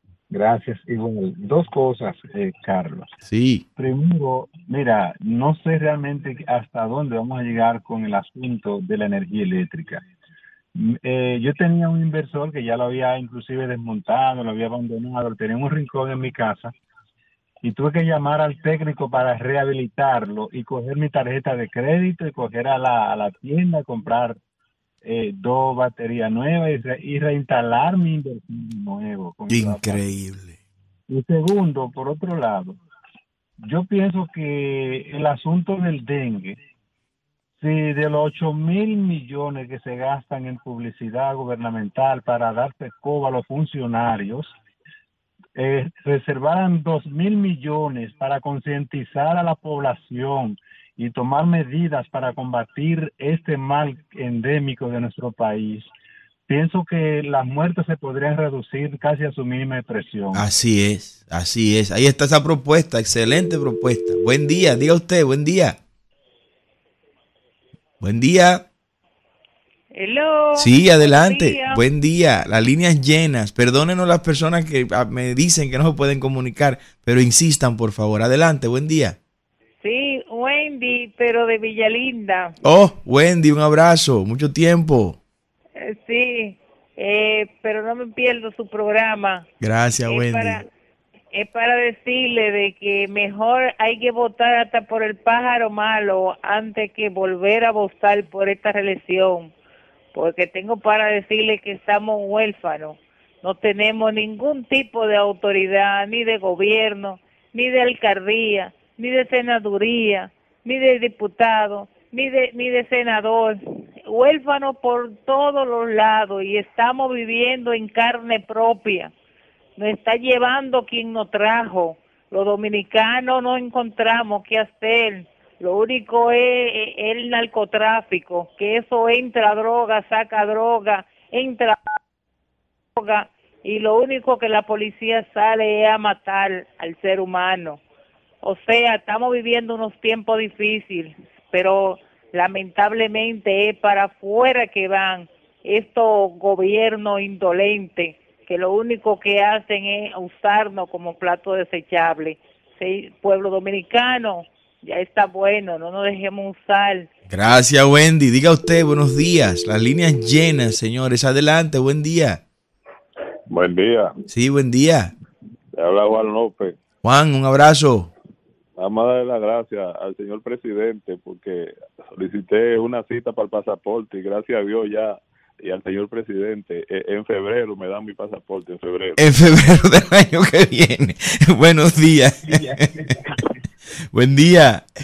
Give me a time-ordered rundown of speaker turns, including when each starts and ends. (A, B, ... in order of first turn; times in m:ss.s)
0:00.3-0:03.1 A
0:03.2-0:03.6 B
0:03.8-0:10.0 A
0:10.8-0:16.7 A
0:17.6-0:24.4 A
0:25.0-0:30.0 A
0:29.5-0:30.6 B
0:31.1-0:32.8 A
0:33.6-0:36.6 A
0:37.6-0:44.6 A
0:45.6-0:55.9 A
0:56.5-1:00.4 A
1:00.3-1:05.8 B
1:08.0-1:08.7 B
1:09.9-1:11.8 C
1:10.6-1:19.2 B
1:19.8-1:22.5 C
1:22.6-1:25.2 B
1:25.8-1:29.5 C
1:29.6-1:30.6 B
1:30.1-1:30.6 C
1:31.4-1:39.5 C
1:40.1-1:59.1 C
1:59.8-2:11.8 C
2:13.0-2:17.8 C
2:18.4-2:37.1 C
2:37.3-2:42.4 B
2:43.5-2:44.2 D
2:44.3-2:45.1 B
2:45.8-2:46.8 D
2:47.0-2:48.1 B
2:48.8-2:59.2 D
2:59.2-3:03.1 B
3:04.1-3:04.9 B